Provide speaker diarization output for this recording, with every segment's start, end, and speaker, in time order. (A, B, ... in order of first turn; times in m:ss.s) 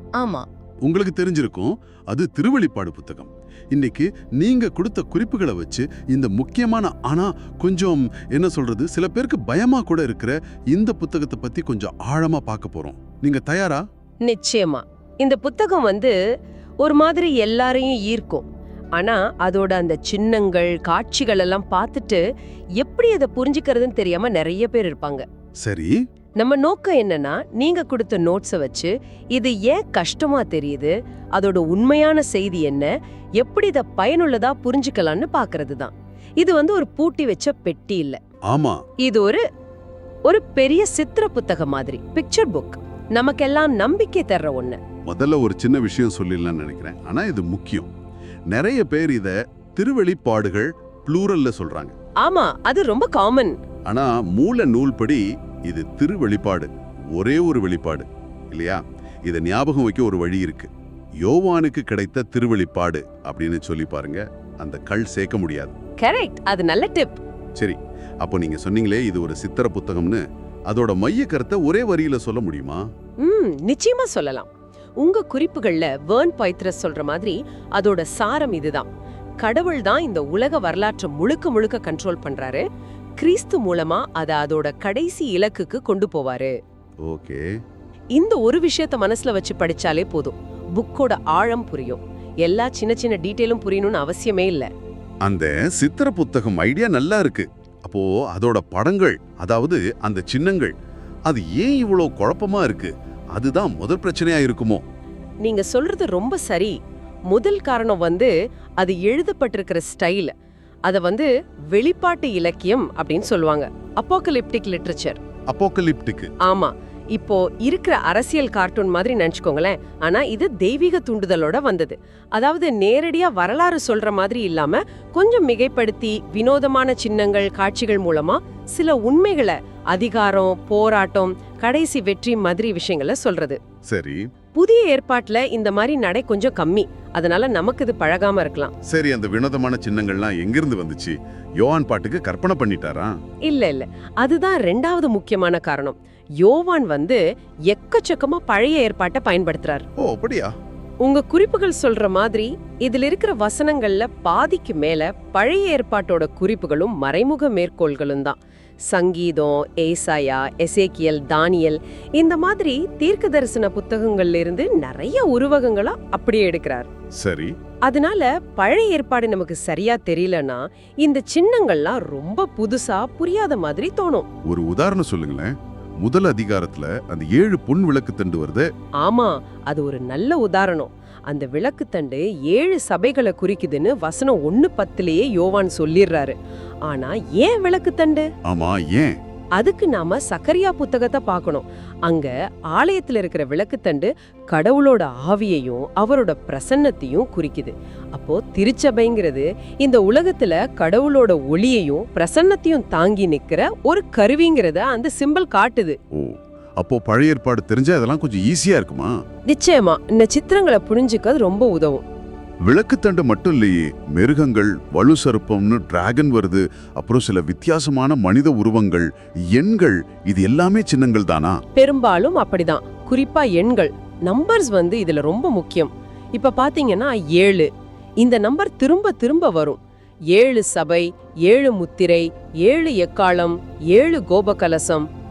0:00.2-0:00.4 A
0:00.8-0:13.8 B
0:14.2-0:16.1 A
0:16.8-0:22.2 A
0:22.8-0:25.2 A
0:25.6-0:26.0 B
0:26.4-0:38.2 A
0:38.5-0:38.8 B
0:39.0-0:39.4 A
0:40.2-0:44.8 A
0:45.0-0:47.9 B
0:48.5-0:51.9 B
0:52.2-0:53.6 A
0:53.8-1:00.7 B
1:01.2-1:05.7 B
1:06.0-1:07.2 A
1:07.6-1:12.9 B
1:13.2-1:22.6 A
1:23.2-1:26.6 A
1:27.0-1:27.4 B
1:28.1-1:34.7 A
1:35.2-1:40.7 B
1:41.2-1:44.8 B
1:45.4-1:46.8 A
1:47.3-1:50.3 A
1:50.8-1:55.2 A
1:55.5-1:56.3 B
1:56.4-2:13.6 A
2:13.9-2:14.3 B
2:14.5-2:18.7 A
2:18.8-2:23.2 B
2:23.4-2:29.8 A
2:30.0-2:30.5 B
2:31.0-2:38.4 A
2:38.9-2:46.9 A
2:47.2-2:47.6 B
2:47.8-2:54.3 A
2:54.4-2:58.7 B
2:59.0-3:08.3 A
3:08.4-3:09.2 B
3:09.6-3:26.0 A
3:26.1-3:29.2 B
3:29.5-3:32.0 A
3:32.6-3:41.6 B
3:41.7-3:47.7 A
3:48.2-3:49.8 A
3:50.3-3:55.1 A